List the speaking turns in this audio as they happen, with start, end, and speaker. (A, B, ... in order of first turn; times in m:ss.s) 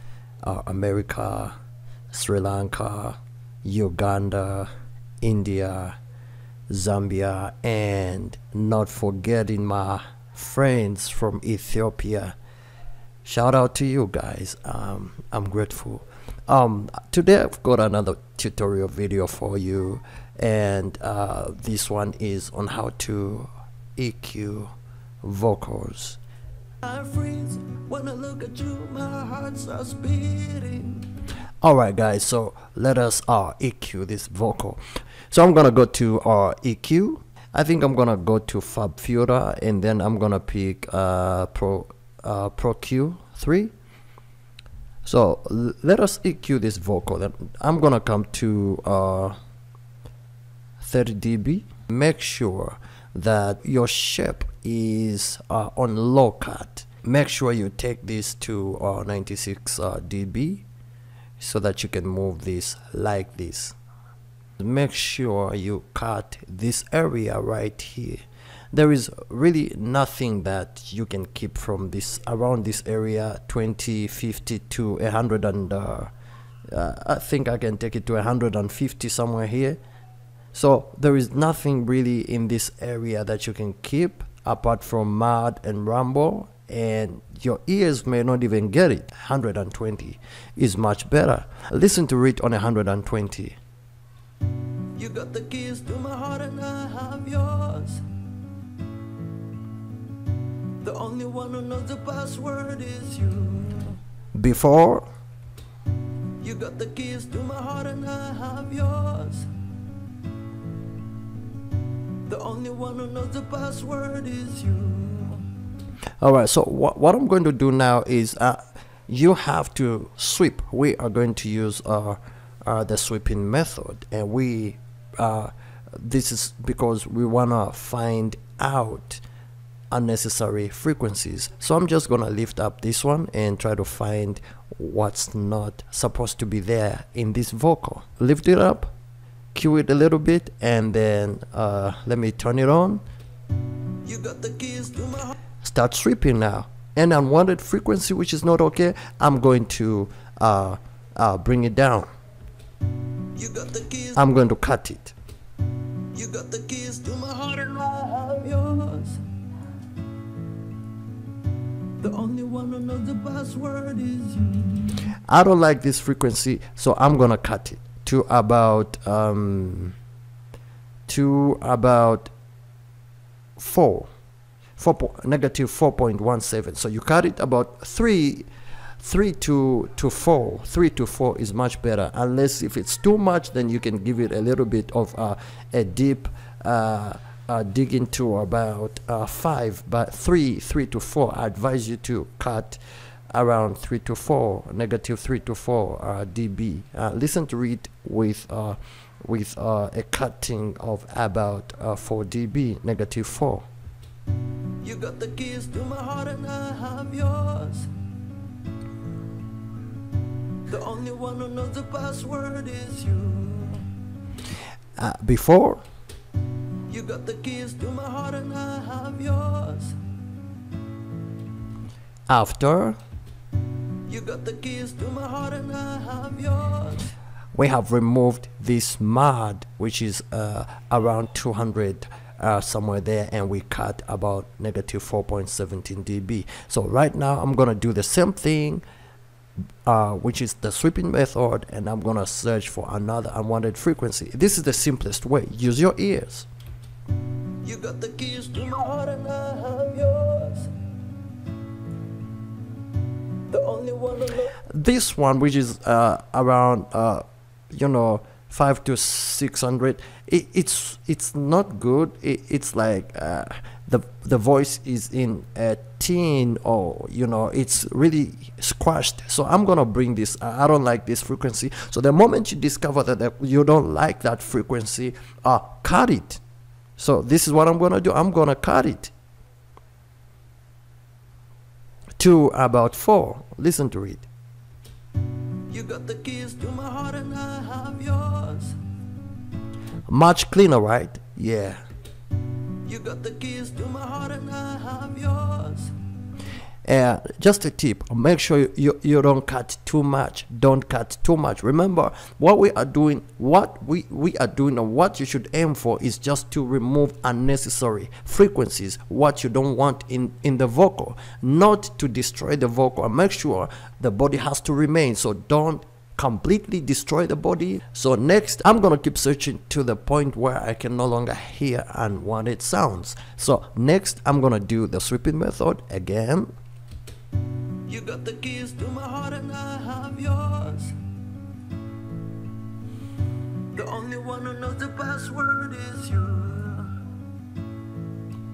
0:00.4-0:01.5 A
0:02.1-0:04.7 A
0:05.2-0:05.9 A
0:06.7-0:12.4 A
0:13.2-0:24.7 A
0:25.2-0:26.2 A
0:26.8-0:31.0 B
0:31.6-0:43.7 A
0:45.0-0:49.4 A
0:50.8-1:00.6 A
1:01.4-1:03.8 A
1:04.6-1:16.1 A
1:16.7-1:19.8 A
1:20.5-1:33.6 A
1:35.0-1:38.0 B
1:40.8-1:44.0 B
1:44.3-1:45.0 A
1:46.4-1:49.5 B
1:52.2-1:55.4 B
1:56.2-2:09.2 A
2:09.9-2:18.9 A
2:19.5-2:23.0 A
2:24.0-2:25.3 B
2:25.6-2:32.1 A
2:33.3-2:34.2 B
2:34.1-2:35.1 A
2:36.1-2:39.2 B
2:42.0-2:45.0 B
2:45.3-2:49.9 A
2:51.1-2:52.3 A
2:53.6-2:54.1 A
2:54.8-2:58.5 A
2:59.0-3:12.8 A
3:13.3-3:23.6 A
3:24.8-3:27.9 B
3:30.7-3:33.9 B
3:35.0-3:35.8 A
3:36.9-3:40.0 B
3:42.3-3:43.0 A
3:44.0-3:47.1 B
3:47.5-3:58.8 A
3:59.8-4:06.5 A
4:07.6-4:10.7 B
4:13.5-4:14.5 B
4:14.6-4:36.4 A
4:37.0-4:39.1 A
4:42.2-4:44.3 A
4:45.7-4:48.8 B
4:50.1-4:51.8 A
4:52.8-4:55.9 B
4:56.8-5:26.5 A
5:27.9-5:31.0 B
5:33.7-5:37.0 B